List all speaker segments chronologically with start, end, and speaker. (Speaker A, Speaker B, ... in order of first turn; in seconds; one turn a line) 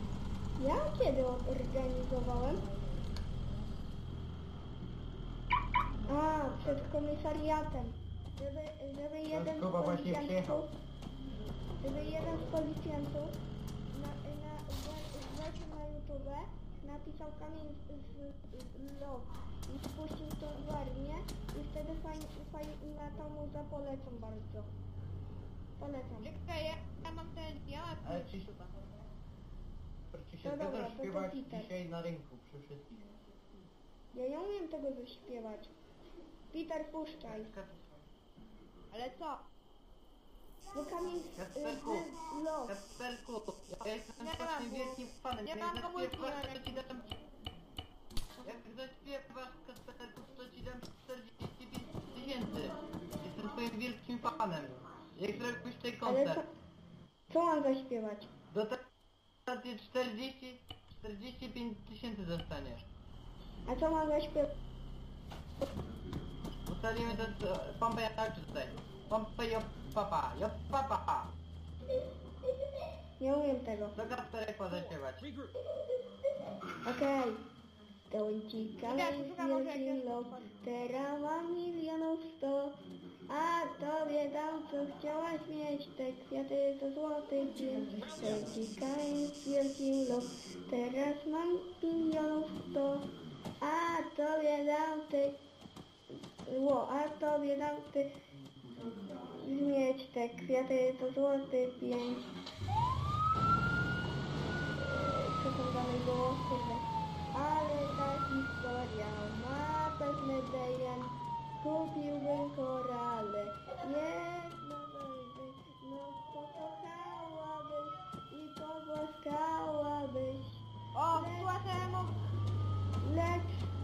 Speaker A: 0.6-2.6
Speaker A: 6.1-10.7
Speaker B: 6.6-6.9
Speaker B: 9.3-10.7
Speaker A: 11.8-13.3
Speaker A: 13.9-24.7
Speaker A: 25.8-26.4
Speaker C: 26.2-28.9
Speaker B: 28.0-28.5
Speaker B: 30.1-33.1
Speaker A: 30.4-31.7
Speaker A: 34.1-35.7
Speaker A: 36.5-37.5
Speaker B: 37.3-37.9
Speaker C: 38.9-39.5
Speaker A: 40.7-42.8
Speaker B: 41.4-42.1
Speaker B: 42.7-47.1
Speaker C: 44.2-46.8
Speaker B: 48.4-56.4
Speaker A: 56.0-56.5
Speaker A: 57.3-58.3
Speaker B: 58.5-58.8
Speaker B: 59.5-62.9
Speaker A: 63.7-64.5
Speaker B: 66.7-71.3
Speaker A: 73.2-74.0
Speaker B: 74.0-75.3
Speaker A: 76.8-77.4
Speaker A: 78.1-93.1
Speaker C: 78.8-80.5
Speaker A: 93.6-95.4
Speaker A: 96.5-98.1
Speaker A: 99.3-102.3
Speaker A: 104.8-121.5
Speaker C: 120.9-122.2
Speaker A: 123.0-123.7